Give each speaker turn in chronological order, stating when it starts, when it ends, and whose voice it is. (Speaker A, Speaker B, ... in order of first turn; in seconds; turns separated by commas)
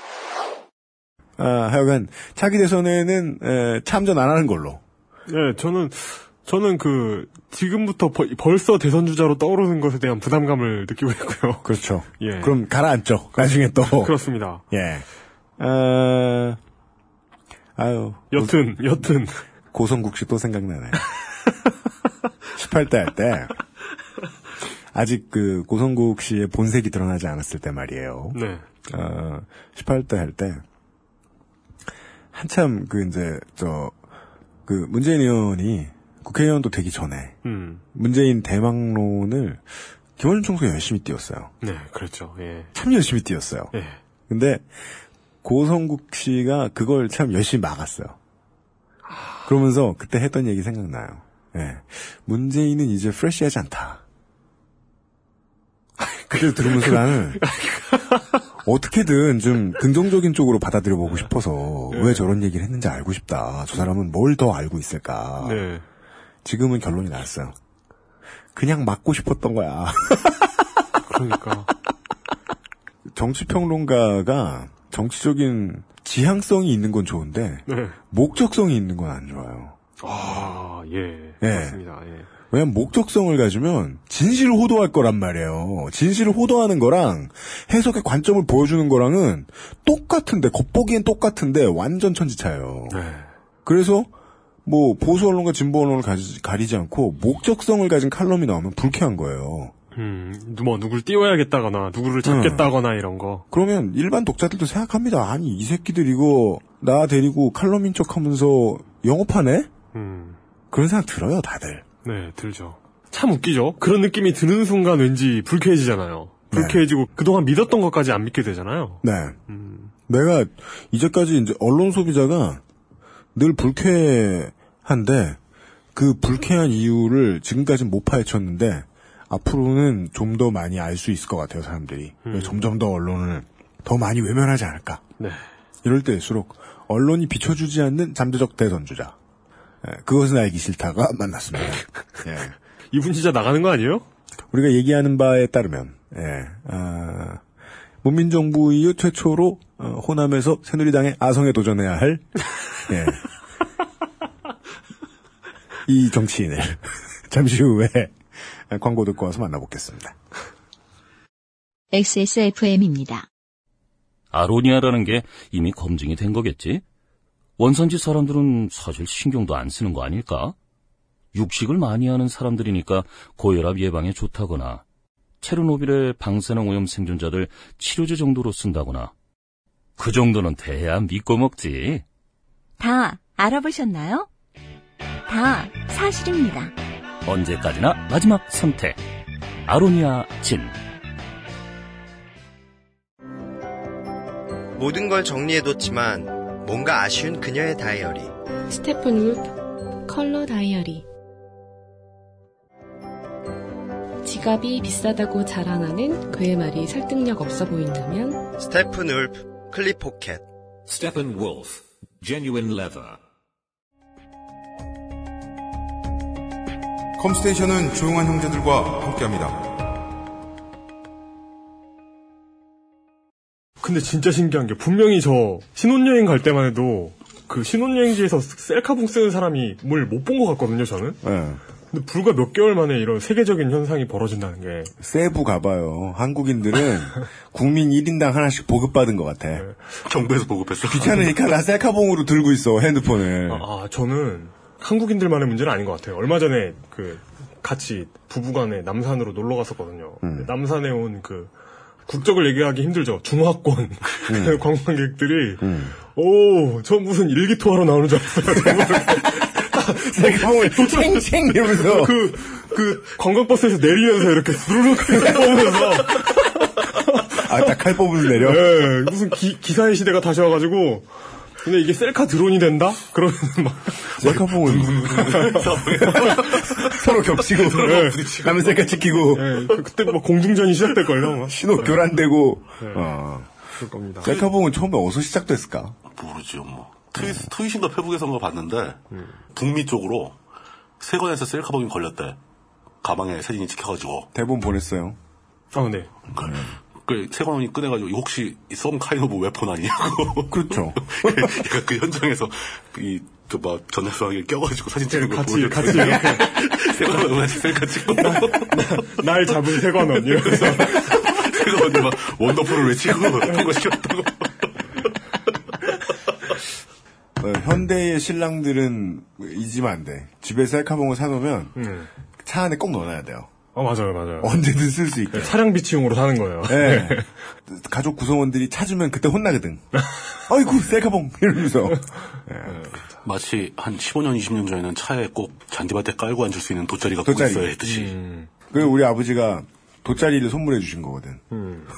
Speaker A: 1.4-4.8, Speaker B: 5.3-12.6, Speaker A: 11.6-14.1, Speaker B: 13.3-14.7, Speaker A: 14.7-15.0, Speaker A: 15.6-16.6, Speaker A: 17.8-18.6, Speaker B: 18.3-19.4, Speaker A: 19.7-21.0, Speaker A: 22.6-23.5, Speaker A: 24.9-30.6, Speaker B: 28.3-28.6, Speaker A: 32.3-34.0, Speaker A: 34.6-37.4, Speaker B: 37.4-37.8, Speaker A: 37.9-41.5, Speaker B: 41.6-42.7, Speaker A: 42.7-43.7, Speaker B: 43.7-44.0, Speaker A: 44.3-44.7, Speaker A: 45.4-48.2, Speaker A: 49.5-54.0, Speaker A: 56.3-57.4, Speaker B: 56.4-58.4, Speaker A: 58.6-65.7, Speaker B: 61.9-62.2, Speaker B: 65.4-65.8, Speaker A: 66.4-67.5, Speaker A: 68.5-70.3, Speaker B: 71.1-71.7, Speaker A: 73.1-79.8, Speaker B: 77.7-78.0, Speaker B: 80.0-82.3, Speaker A: 81.4-81.8, Speaker A: 82.5-93.0, Speaker B: 92.9-93.3, Speaker A: 93.6-94.1, Speaker A: 94.6-99.7, Speaker B: 99.9-103.5, Speaker A: 102.2-102.7, Speaker A: 103.5-109.7, Speaker B: 109.9-110.4, Speaker A: 110.7-111.9, Speaker B: 112.0-119.9, Speaker A: 116.5-116.8, Speaker A: 119.0-119.3, Speaker A: 120.1-122.6, Speaker A: 123.3-125.4, Speaker A: 125.9-135.0, Speaker B: 132.2-132.7, Speaker B: 135.2-135.4, Speaker A: 135.8-139.1, Speaker A: 139.8-142.5, Speaker B: 142.9-144.1, Speaker A: 144.5-147.4, Speaker A: 148.0-153.2, Speaker A: 155.9-158.2, Speaker A: 158.7-160.1, Speaker C: 161.9-163.3, Speaker D: 164.3-166.8, Speaker D: 167.6-170.5, Speaker D: 171.3-174.8, Speaker D: 175.4-179.1, Speaker D: 180.0-182.0, Speaker C: 182.8-184.3, Speaker C: 185.3-186.7, Speaker D: 187.2-189.0, Speaker D: 189.7-190.7, Speaker E: 194.7-198.3, Speaker F: 198.7-199.5, Speaker F: 200.1-201.0, Speaker F: 204.2-208.5, Speaker E: 208.6-210.4, Speaker G: 210.9-213.2, Speaker H: 217.2-219.6, Speaker B: 223.8-231.2, Speaker A: 231.2-231.6, Speaker B: 231.9-234.9, Speaker A: 235.0-239.7, Speaker I: 240.0-241.4, Speaker A: 240.9-243.7, Speaker B: 243.5-251.5, Speaker A: 250.2-250.5, Speaker B: 252.1-266.5, Speaker A: 254.3-254.6, Speaker A: 255.6-256.0, Speaker A: 258.6-259.2, Speaker A: 259.7-262.3, Speaker A: 267.4-268.8, Speaker B: 268.3-271.1, Speaker B: 271.6-274.4, Speaker A: 274.2-279.5, Speaker I: 274.4-279.1, Speaker B: 275.2-276.4, Speaker B: 277.7-278.4, Speaker B: 279.3-282.0, Speaker A: 281.5-283.5, Speaker B: 282.8-283.1, Speaker B: 283.8-284.3, Speaker A: 284.2-286.0, Speaker I: 286.1-289.0, Speaker I: 289.5-290.4, Speaker I: 291.0-292.4, Speaker I: 293.0-294.3, Speaker A: 294.3-295.2, Speaker B: 295.7-296.1, Speaker I: 296.3-309.0, Speaker A: 296.4-296.7, Speaker A: 300.5-301.5, Speaker B: 305.1-306.5, Speaker B: 308.2-311.3, Speaker I: 310.1-314.5, Speaker A: 317.4-321.7, Speaker B: 321.8-322.1, Speaker A: 322.4-323.5, Speaker B: 323.7-324.6, Speaker A: 324.4-325.6, Speaker B: 325.3-327.3, Speaker A: 326.7-329.8, Speaker A: 330.5-332.8, Speaker B: 332.6-333.0, Speaker I: 333.2-338.1, Speaker A: 337.2-337.8, Speaker B: 337.8-338.5, Speaker A: 338.7-341.4, Speaker B: 341.5-341.9